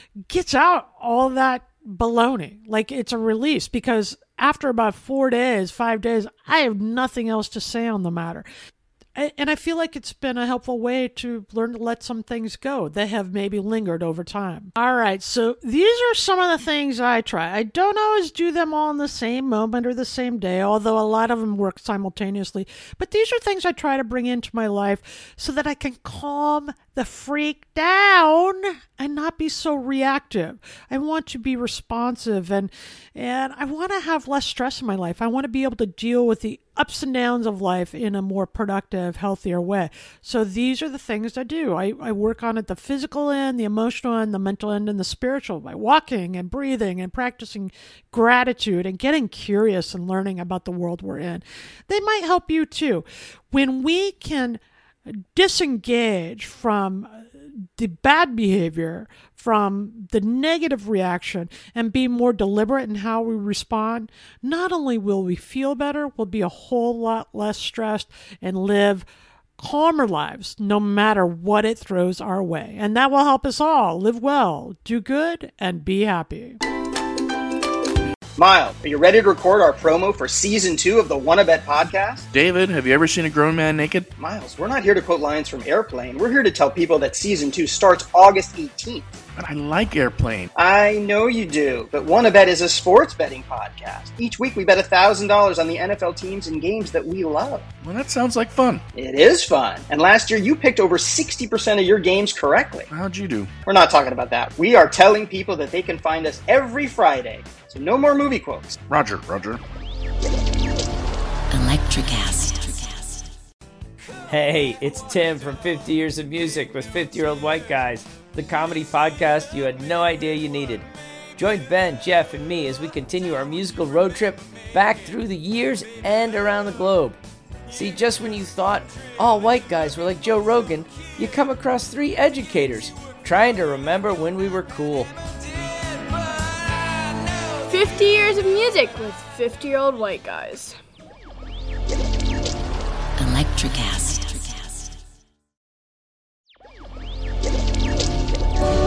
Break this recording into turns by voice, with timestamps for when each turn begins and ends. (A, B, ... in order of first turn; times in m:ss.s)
0:00.3-0:08.4 A
0:09.1-1:09.0 A
1:09.6-1:16.6 A
1:18.4-1:22.3 B
1:22.3-1:24.1 C
1:24.2-1:29.1 B
1:29.4-1:30.5 C
1:30.6-1:37.6 B
1:37.8-1:38.8 C
1:39.0-1:42.9 B
1:42.9-1:43.5 C
1:43.6-1:48.8 B
1:48.8-1:49.6 C
1:51.5-1:53.2 D
1:54.3-2:00.8 E
2:01.4-2:07.2 E
2:07.7-2:15.1 E
2:17.7-2:20.8 F
2:23.2-2:24.7 D